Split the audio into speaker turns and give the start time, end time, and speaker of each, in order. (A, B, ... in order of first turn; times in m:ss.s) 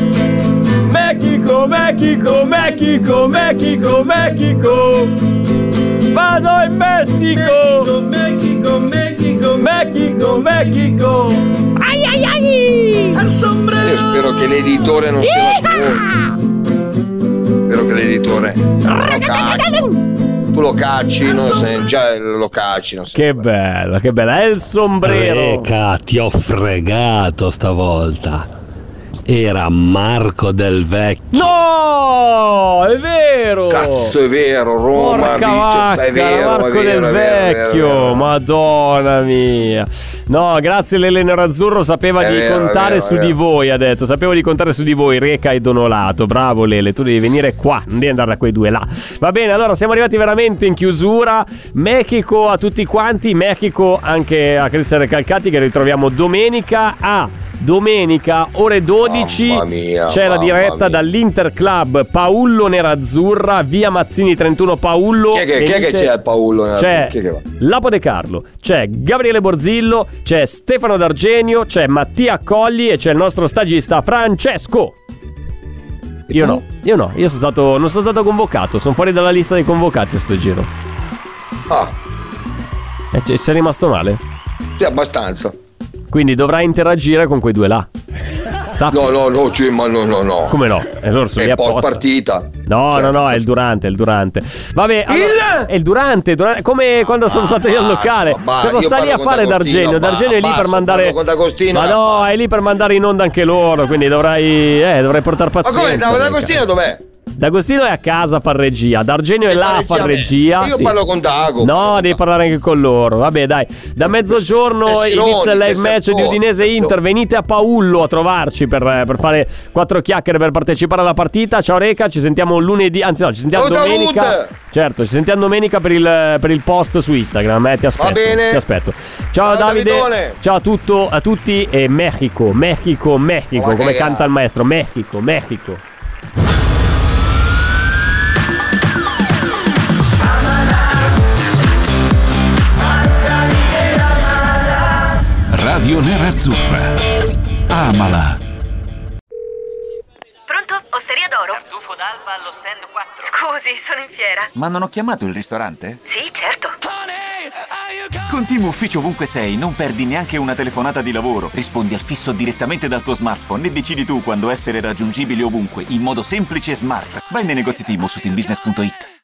0:00.8-0:05.1 A
0:03.1-0:04.3 B
0:06.1-0:07.9 A
0:07.3-0:11.4 B
0:09.6-0:10.8 A
0:11.8-0:13.2 A
0:13.1-0:15.0 B
0:13.8-0:16.0 C
0:15.2-0:16.0 A
0:17.7-0:19.9 C
0:18.8-0:19.9 A
0:20.5-0:23.4 C
0:23.1-0:25.7 A
0:25.0-0:28.5 D
0:29.2-0:31.5 D
0:31.3-0:34.1 A
0:33.7-0:38.2 C
0:34.9-1:06.1 A
0:42.2-0:43.4 C
0:59.0-1:01.0 C
1:05.3-1:07.4 C
1:06.8-1:14.9 A
1:16.3-1:16.6 C
1:16.3-1:20.7 A
1:21.7-1:21.9 C
1:23.1-1:24.2 A
1:24.8-1:25.5 C
1:26.1-1:27.9 A
1:28.7-1:29.1 A
1:28.9-1:30.6 C
1:30.5-1:32.0 A
1:31.4-1:33.4 C
1:32.6-1:41.2 A
1:35.1-1:35.7 C
1:37.3-1:42.3 C
1:41.7-1:46.6 A
1:45.6-1:47.0 C
1:47.4-1:50.9 A
1:49.5-1:52.2 C
1:51.6-2:15.8 A
1:54.0-1:56.9 C
2:03.5-2:04.5 C
2:08.0-2:08.6 C
2:09.4-2:10.4 C
2:13.5-2:14.3 C
2:25.5-2:27.0 E
2:27.7-2:28.4 E
2:30.5-2:34.5 F
2:34.5-2:36.0 G
2:36.1-2:36.8 F
2:38.3-2:49.1 G